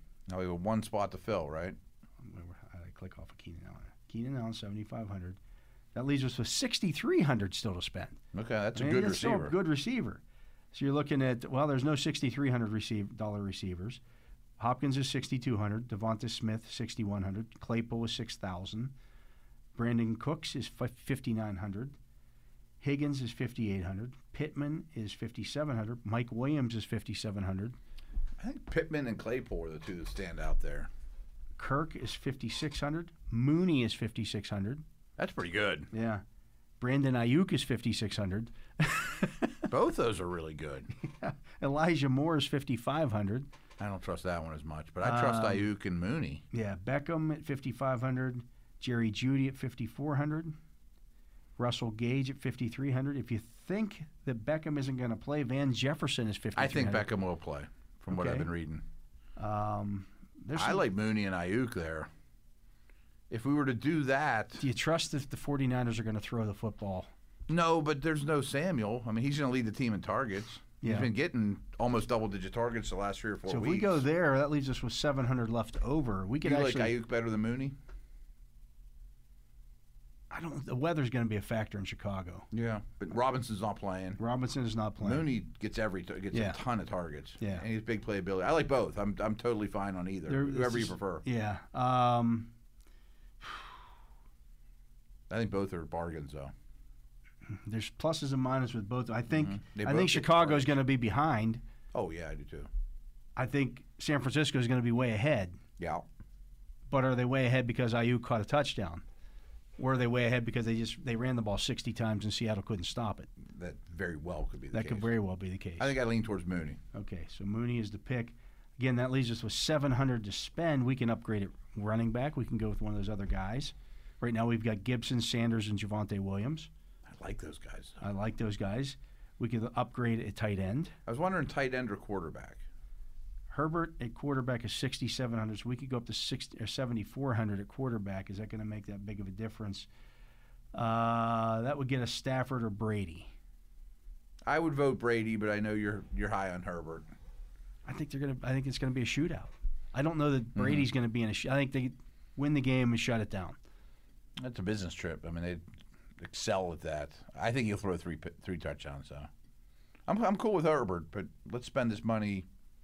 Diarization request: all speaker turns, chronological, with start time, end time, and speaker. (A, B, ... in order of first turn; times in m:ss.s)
0:00.3-0:01.8 A
0:02.2-0:05.4 B
0:05.9-0:08.2 B
0:08.3-0:09.6 A
0:08.7-0:10.2 B
0:10.7-0:14.0 B
0:14.6-0:18.9 B
0:19.7-0:22.0 B
0:22.8-0:27.8 B
0:28.4-0:30.9 A
0:31.6-0:34.8 B
0:35.2-0:35.9 A
0:35.9-0:36.2 B
0:36.8-0:39.7 B
0:39.7-0:40.9 A
0:41.0-0:43.5 B
0:43.8-0:46.4 A
0:45.0-0:45.7 B
0:46.5-0:50.6 B
0:51.6-0:57.1 B
0:56.6-0:58.8 A
0:58.1-0:58.5 B
0:59.4-1:00.9 B
1:00.6-1:02.1 A
1:03.3-1:04.6 A
1:04.6-1:07.1 B
1:07.5-1:14.0 A
1:10.8-1:11.1 B
1:13.5-1:17.0 B
1:16.4-1:17.7 A
1:20.3-1:22.5 B
1:22.5-1:24.2 A
1:24.2-1:25.2 B
1:25.0-1:31.2 A
1:26.3-1:26.6 B
1:27.4-1:27.6 B
1:30.3-1:32.5 B
1:33.4-1:33.7 B
1:35.3-1:36.5 A
1:37.4-1:41.6 B
1:39.3-1:40.8 A
1:41.9-1:42.7 A
1:43.4-1:45.6 B
1:45.8-1:46.0 A
1:46.9-1:49.0 B
1:49.8-1:53.3 B
1:53.4-1:55.1 A
1:54.7-1:55.9 B
1:55.8-1:56.8 A
1:56.9-2:06.7 B
2:07.0-2:08.0 A
2:08.0-2:10.9 B
2:11.0-2:12.6 A
2:13.5-2:19.9 B
2:20.7-2:23.3 B
2:24.4-2:27.1 A
2:27.8-2:33.6 B
2:30.6-2:30.9 A
2:34.4-2:35.6 A
2:36.2-2:39.3 A
2:40.1-2:42.4 A